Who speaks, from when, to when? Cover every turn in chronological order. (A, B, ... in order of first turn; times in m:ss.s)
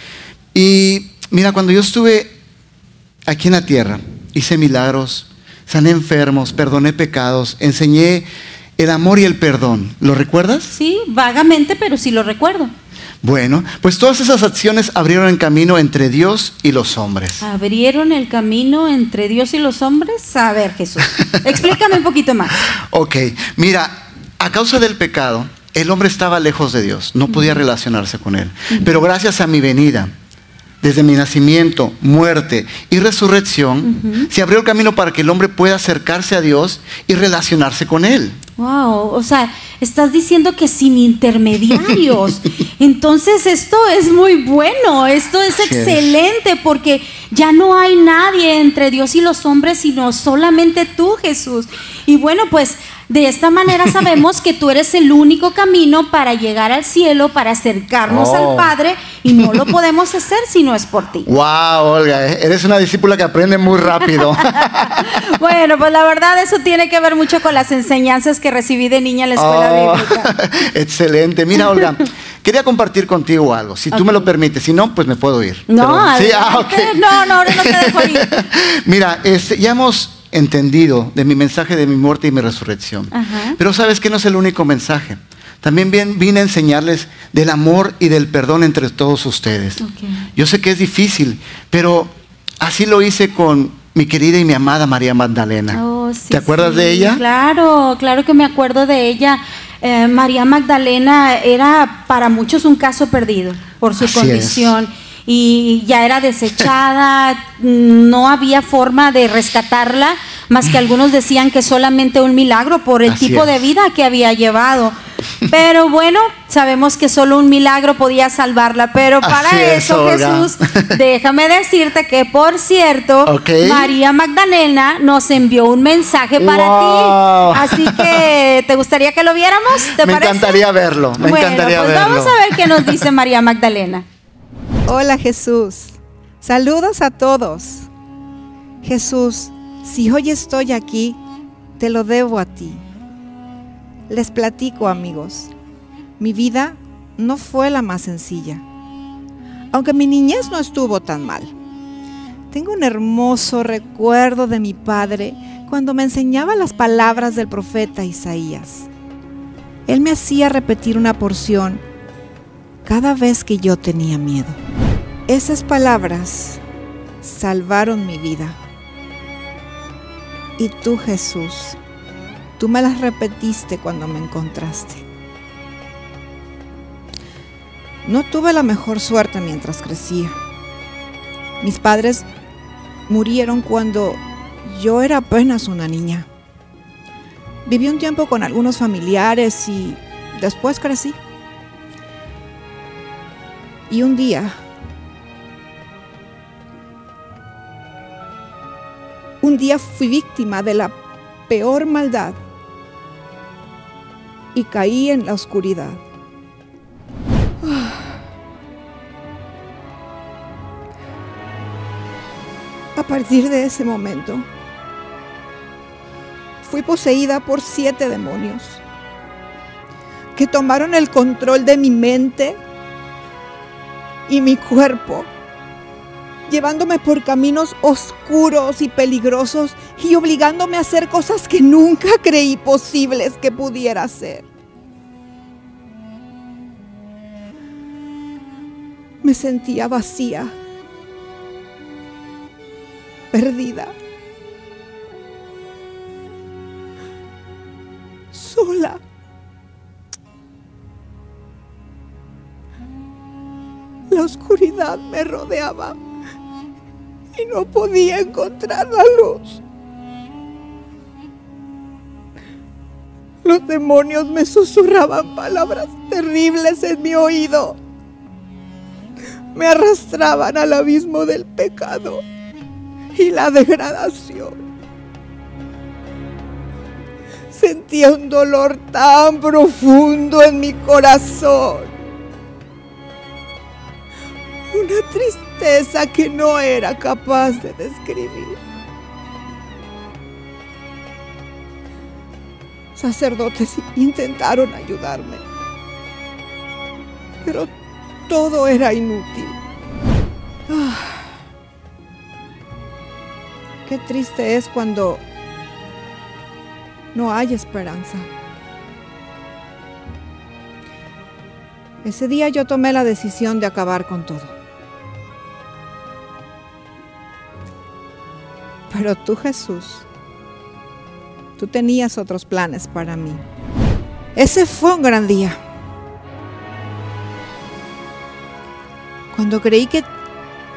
0:00.5-0:02.3 A
0:03.3-0:08.3 A
0:08.8-0:10.7 A
0:10.7-0:12.7 B
0:13.2-0:17.4 A
0:17.4-0:22.5 B
0:22.9-0:30.1 A
0:27.3-0:27.6 B
0:30.8-0:38.4 A
0:33.8-0:34.3 B
0:38.6-1:01.3 B
0:45.6-0:46.1 A
0:58.1-0:58.7 A
0:59.4-0:59.7 A
1:01.3-1:05.0 A
1:04.1-1:10.3 B
1:09.4-1:29.8 A
1:13.9-1:14.3 B
1:15.7-1:18.4 B
1:23.1-1:23.6 B
1:29.8-1:30.2 B
1:30.4-1:35.8 A
1:35.7-1:55.0 B
1:36.3-1:37.2 A
1:44.0-1:44.8 A
1:53.1-1:53.6 A
1:55.5-2:10.6 B
1:59.2-2:01.0 A
2:03.3-2:03.9 A
2:06.4-2:08.2 A
2:10.0-2:12.4 A
2:11.2-2:14.0 B
2:14.9-2:17.9 C
2:18.8-2:21.2 C
2:21.8-2:22.8 C
2:24.1-2:25.5 C
2:26.2-2:28.6 C
2:29.7-2:31.5 C
2:32.5-2:38.9 C
2:39.9-2:41.8 C
2:42.8-2:44.6 C
2:45.3-2:46.6 C
2:47.2-2:48.6 C
2:50.6-2:51.8 C
2:52.6-2:55.0 C
2:58.0-3:00.4 C
3:01.6-3:02.3 C
3:03.1-3:06.3 C
3:07.7-3:11.2 C
3:13.9-3:14.6 C
3:19.4-3:21.0 C
3:21.5-3:22.4 C
3:24.5-3:26.0 C
3:27.6-3:28.2 C
3:33.0-3:34.5 C
3:36.6-3:38.8 C
3:40.4-3:42.6 C
3:44.3-3:45.3 C
3:46.5-3:54.4 C
3:59.2-4:00.6 C
4:03.3-4:04.0 C
4:08.3-4:09.0 C
4:14.1-4:16.0 C
4:17.4-4:19.6 C
4:23.4-4:27.8 C
4:29.6-4:32.2 C
4:33.2-4:34.6 C
4:37.5-4:41.9 C
4:44.7-4:48.6 C
4:53.0-4:55.4 C
4:57.4-4:57.7 C
4:58.3-4:59.6 C
5:00.7-5:01.3 C
5:03.9-5:05.2 C
5:07.1-5:08.3 C
5:12.0-5:14.5 C
5:18.9-5:20.0 C
5:21.6-5:23.4 C
5:24.4-5:25.6 C
5:29.3-5:30.1 C